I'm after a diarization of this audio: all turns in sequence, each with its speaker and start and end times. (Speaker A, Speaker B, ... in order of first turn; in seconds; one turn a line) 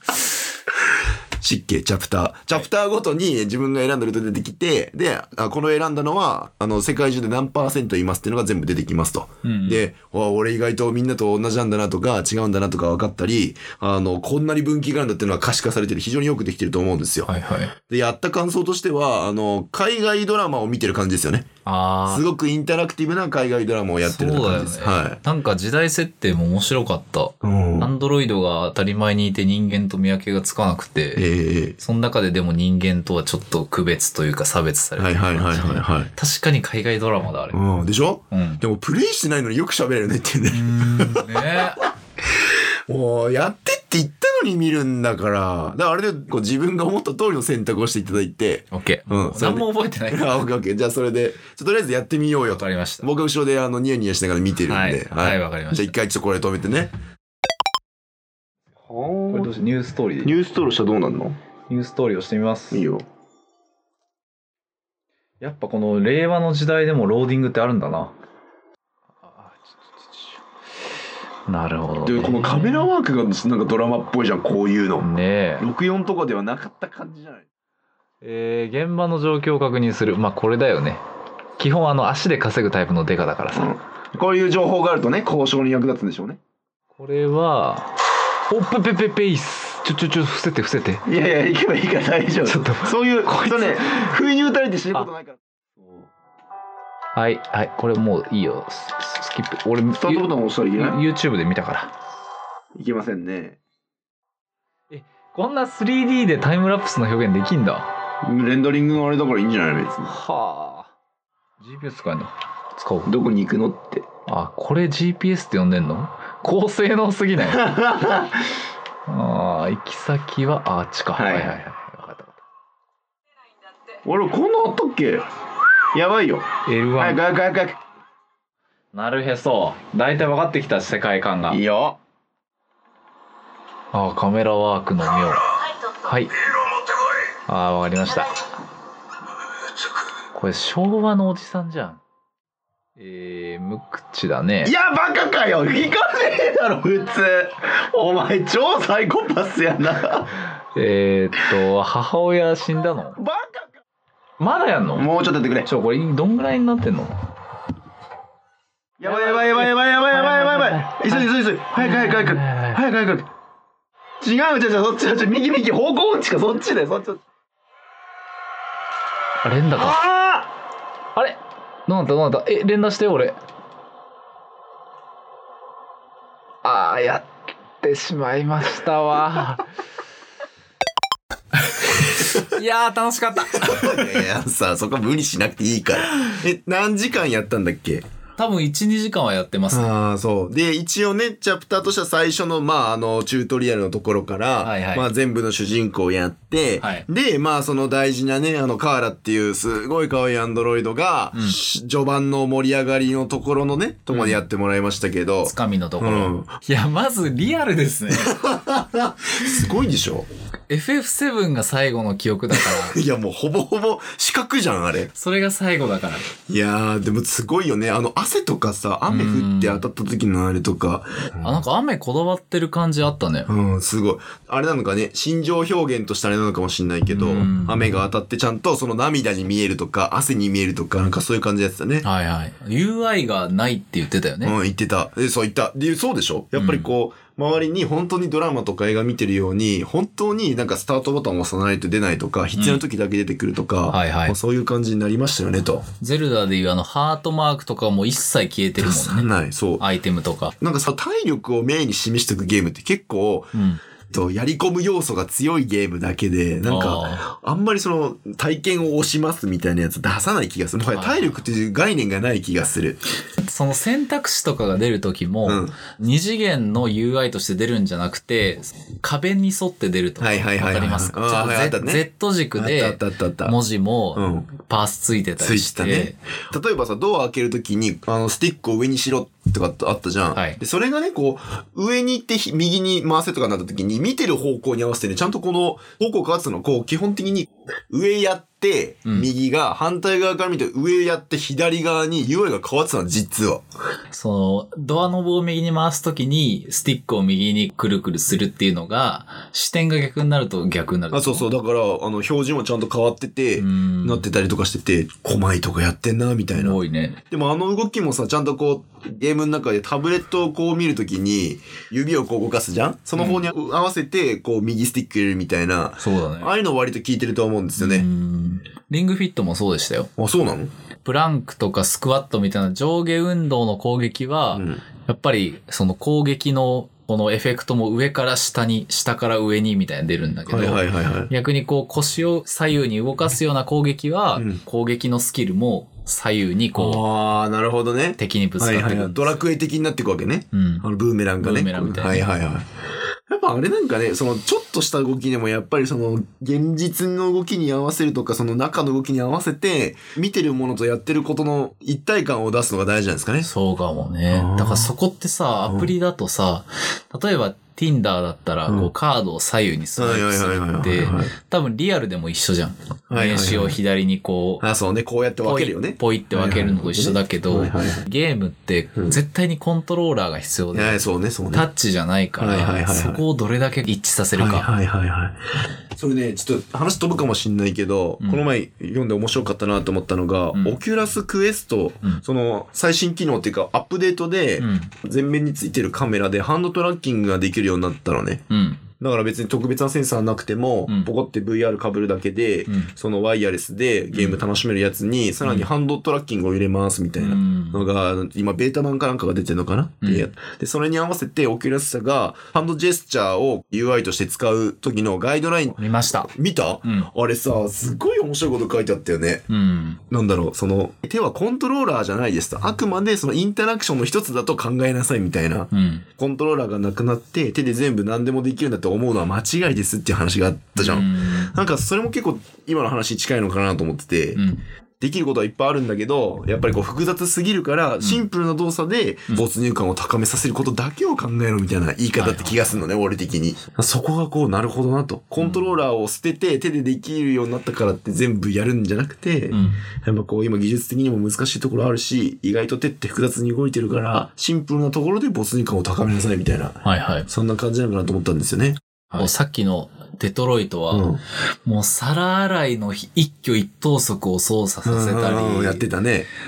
Speaker A: 1.4-17.3
Speaker B: 9.4-9.8
Speaker B: 17.3-17.7
Speaker A: 17.9-21.4
Speaker B: 21.6-22.2
Speaker A: 22.1-25.2
Speaker B: 24.0-37.6
Speaker A: 27.4-27.9
Speaker A: 31.1-31.8
Speaker A: 35.0-36.1
Speaker A: 37.5-41.7
Speaker B: 38.3-38.6
Speaker B: 40.5-41.9
Speaker A: 42.5-56.9
Speaker B: 48.7-50.4
Speaker B: 52.5-53.0
Speaker B: 54.6-55.9
Speaker A: 58.9-59.6
Speaker B: 59.3-60.4
Speaker A: 60.2-61.4
Speaker B: 61.7-62.8
Speaker A: 62.7-63.0
Speaker B: 65.4-68.1
Speaker B: 69.2-70.4
Speaker B: 71.5-72.9
Speaker A: 72.0-75.0
Speaker B: 75.0-75.7
Speaker A: 75.6-77.5
Speaker B: 78.2-81.0
Speaker B: 81.6-83.7
Speaker A: 83.5-86.4
Speaker B: 87.0-87.9
Speaker B: 88.5-91.0
Speaker A: 91.0-96.1
Speaker B: 92.5-94.1
Speaker B: 97.2-101.9
Speaker A: 99.9-101.0
Speaker A: 102.8-103.6
Speaker B: 104.9-107.9
Speaker A: 108.2-110.1
Speaker B: 110.0-110.9
Speaker B: 111.6-113.1
Speaker A: 113.0-114.0
Speaker B: 114.2-117.7
Speaker A: 117.4-118.4
Speaker B: 119.1-122.4
Speaker A: 121.2-121.5
Speaker A: 124.0-125.2
Speaker A: 125.9-126.5
Speaker B: 126.7-127.2
Speaker A: 127.0-127.8
Speaker B: 128.9-131.6
Speaker A: 131.5-132.0
Speaker B: 133.9-136.3
Speaker B: 137.5-138.4
Speaker B: 140.3-142.0
Speaker B: 143.0-144.7
Speaker A: 144.6-150.3
Speaker B: 150.7-153.2
Speaker A: 153.2-153.8
Speaker B: 154.4-155.1
Speaker A: 154.9-155.7
Speaker B: 155.6-157.1
Speaker A: 159.0-163.3
Speaker B: 159.0-162.8
Speaker A: 164.2-167.2
Speaker B: 169.4-170.0
Speaker A: 169.8-170.5
Speaker B: 171.2-173.4
Speaker B: 176.6-177.2
Speaker B: 177.8-179.6
Speaker B: 182.2-184.3
Speaker A: 183.5-188.0
Speaker B: 188.4-189.9
Speaker A: 189.7-206.5
Speaker B: 194.6-195.1
Speaker B: 196.8-197.1
Speaker B: 204.1-204.4
Speaker B: 205.4-208.4
Speaker A: 208.1-210.3
Speaker B: 210.7-213.0
Speaker A: 212.5-215.1
Speaker B: 215.1-216.3
Speaker A: 216.5-221.6
Speaker B: 219.1-219.8
Speaker B: 221.4-223.5
Speaker A: 223.5-232.1
Speaker B: 227.1-227.9
Speaker B: 232.0-234.5
Speaker A: 234.4-245.8
Speaker B: 236.5-236.9
Speaker B: 242.6-242.8
Speaker B: 243.9-244.3
Speaker B: 246.0-250.5
Speaker A: 248.8-249.8
Speaker A: 250.6-253.6
Speaker B: 253.5-253.8
Speaker A: 254.1-263.0
Speaker B: 256.6-257.3
Speaker B: 260.9-261.4
Speaker B: 263.4-276.2
Speaker A: 265.4-265.7
Speaker A: 270.2-272.0
Speaker A: 272.6-273.6
Speaker A: 274.1-274.5
Speaker A: 275.4-293.6
Speaker B: 280.3-280.6
Speaker B: 294.1-301.5
Speaker A: 301.1-306.8
Speaker B: 303.6-304.2
Speaker B: 306.6-307.2
Speaker A: 307.3-318.1
Speaker B: 313.1-313.4
Speaker B: 316.0-316.5
Speaker B: 317.8-320.1
Speaker A: 320.2-320.7
Speaker B: 321.0-337.0
Speaker A: 324.5-324.8
Speaker A: 330.5-331.3
Speaker A: 336.8-342.6
Speaker B: 338.2-339.4
Speaker B: 340.5-340.9
Speaker B: 341.4-342.3
Speaker A: 343.3-353.5
Speaker B: 353.4-364.6
Speaker A: 354.3-354.9
Speaker A: 358.7-358.9
Speaker A: 360.0-361.3
Speaker A: 363.1-363.8
Speaker A: 364.6-368.0
Speaker B: 365.4-374.7
Speaker A: 370.7-371.7
Speaker A: 372.4-373.2
Speaker A: 374.4-375.4
Speaker A: 375.9-388.4
Speaker B: 384.6-384.9
Speaker B: 388.5-388.8
Speaker A: 389.0-409.4
Speaker B: 394.1-394.4
Speaker B: 395.4-395.7
Speaker B: 397.2-397.8
Speaker B: 400.0-400.3
Speaker B: 405.8-406.3
Speaker B: 409.5-410.0
Speaker A: 410.1-424.4
Speaker B: 415.7-416.0
Speaker B: 420.8-421.5
Speaker B: 424.4-424.6
Speaker A: 425.0-449.3
Speaker B: 432.2-432.8
Speaker B: 435.4-435.8
Speaker B: 439.5-439.9
Speaker B: 446.8-447.3
Speaker B: 449.1-451.1
Speaker A: 450.9-451.2
Speaker B: 451.6-455.9
Speaker A: 454.8-456.3